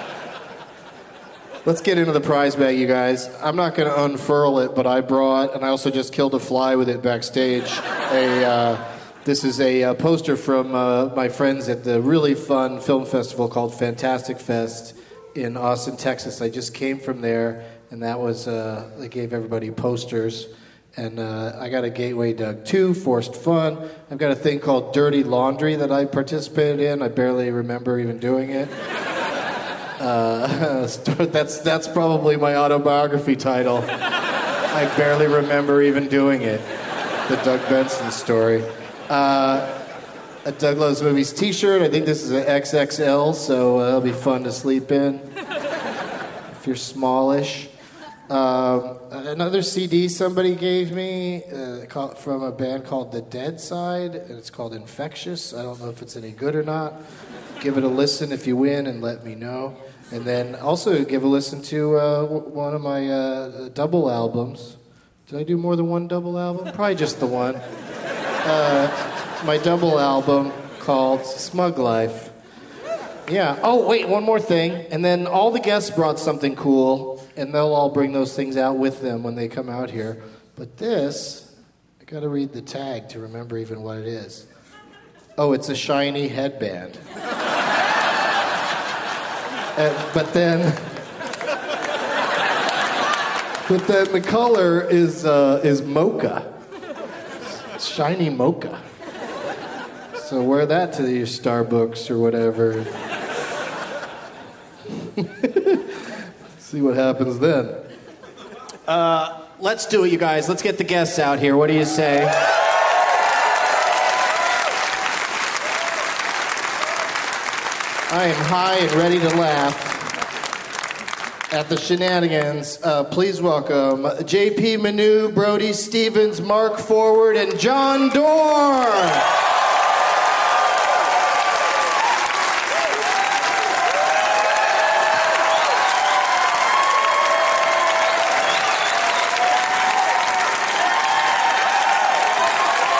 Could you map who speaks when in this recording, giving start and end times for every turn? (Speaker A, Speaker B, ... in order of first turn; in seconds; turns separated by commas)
Speaker A: 1.6-28.7, Speaker A: 30.0-33.9, Speaker A: 34.7-36.7, Speaker A: 37.3-39.7, Speaker A: 40.5-45.3, Speaker A: 46.5-47.7, Speaker A: 48.3-57.0, Speaker A: 57.6-67.6, Speaker A: 68.4-72.3, Speaker A: 73.3-81.5, Speaker A: 82.0-84.5, Speaker A: 85.4-87.0, Speaker A: 89.8-90.9, Speaker A: 93.7-96.5, Speaker A: 97.6-98.8, Speaker A: 100.2-102.9, Speaker A: 104.9-107.8, Speaker A: 108.9-112.5, Speaker A: 118.1-120.2, Speaker A: 121.5-129.3